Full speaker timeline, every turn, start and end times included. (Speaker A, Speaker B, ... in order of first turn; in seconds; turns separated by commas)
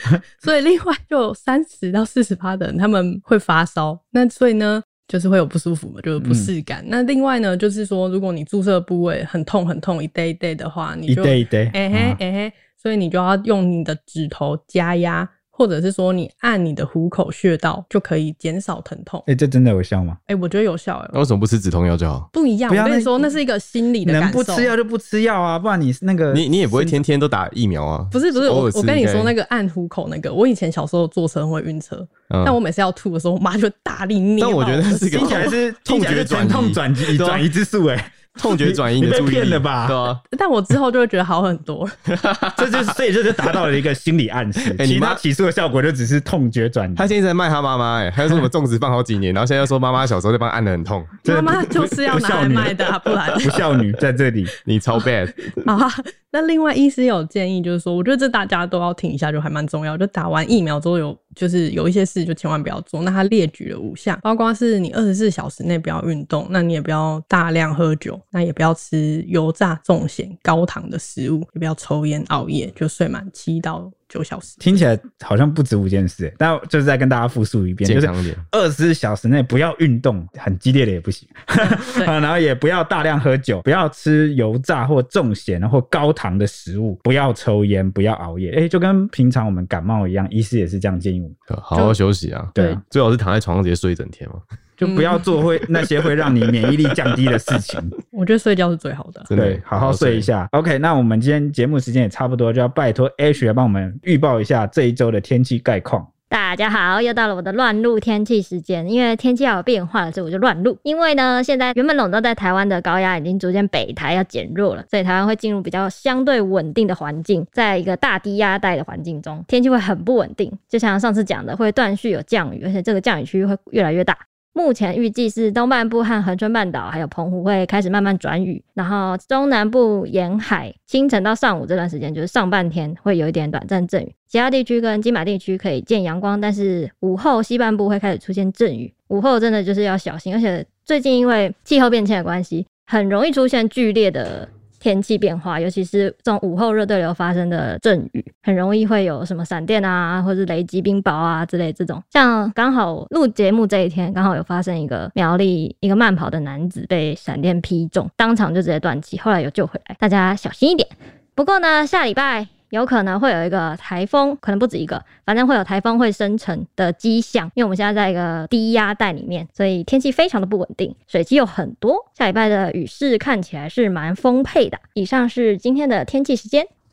Speaker A: 0.4-19.2, Speaker B: 6.2-6.5, Speaker B: 11.1-12.2, Speaker B: 19.3-20.2, Speaker A: 20.3-21.2, Speaker C: 21.1-22.3, Speaker A: 22.3-24.7, Speaker B: 22.7-23.3, Speaker B: 24.0-27.0, Speaker C: 26.3-29.3, Speaker A: 28.1-35.5, Speaker C: 32.3-32.6, Speaker C: 34.4-37.5, Speaker B: 35.1-40.0, Speaker C: 38.4-40.2, Speaker A: 40.3-42.0, Speaker C: 42.1-42.9, Speaker B: 42.6-47.1, Speaker C: 44.7-45.2, Speaker C: 47.0-51.2, Speaker A: 51.2-53.8, Speaker B: 51.2-54.5, Speaker C: 54.6-55.6, Speaker A: 55.6-74.6, Speaker B: 74.6-91.3, Speaker C: 77.8-78.4, Speaker A: 81.6-82.1, Speaker C: 91.5-94.4, Speaker B: 92.5-92.8, Speaker B: 94.8-97.9, Speaker A: 94.8-95.2, Speaker A: 98.1-99.3, Speaker C: 99.3-100.3, Speaker B: 99.3-106.1, Speaker D: 106.3-176.7